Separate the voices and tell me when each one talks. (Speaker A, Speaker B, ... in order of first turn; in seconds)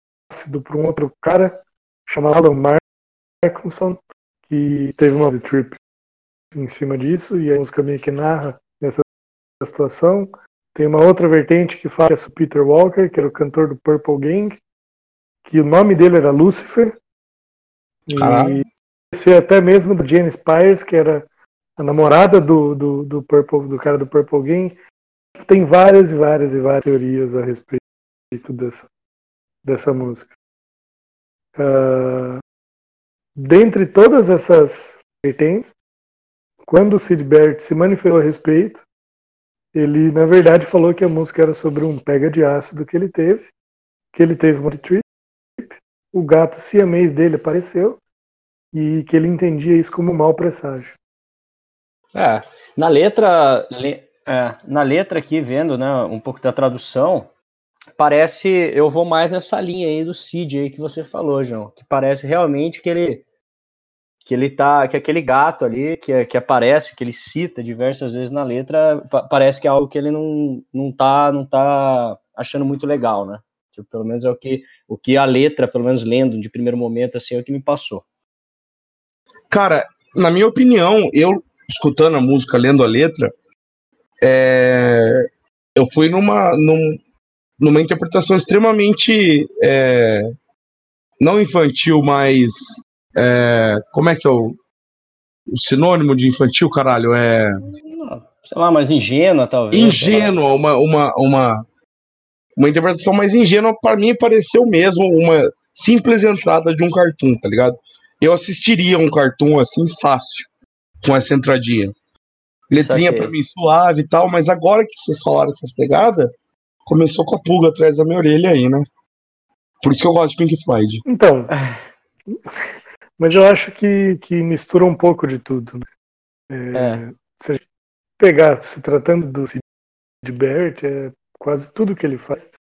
Speaker A: 0.3-2.8, 3.4-5.8, 6.5-9.0, 9.6-14.6, 15.4-16.9, 18.1-21.2, 21.8-24.8, 25.4-28.9, 29.6-30.3, 31.6-32.4, 33.4-35.8, 36.7-38.8, 39.7-43.5, 44.1-45.0, 45.6-48.0, 48.7-51.0, 121.1-121.5, 122.3-122.6, 123.2-125.9, 126.5-127.6, 128.2-129.6, 130.2-132.5
Speaker B: 18.2-18.6, 79.5-83.3, 84.2-87.0, 87.6-90.3, 91.2-94.6, 95.5-97.6, 99.7-101.7, 102.6-110.5, 111.0-112.0, 112.7-116.3, 116.9-118.9, 119.8-121.0
Speaker C: 52.1-57.3, 58.0-63.2, 64.2-78.0, 97.6-100.4, 112.8-113.3, 126.7-127.0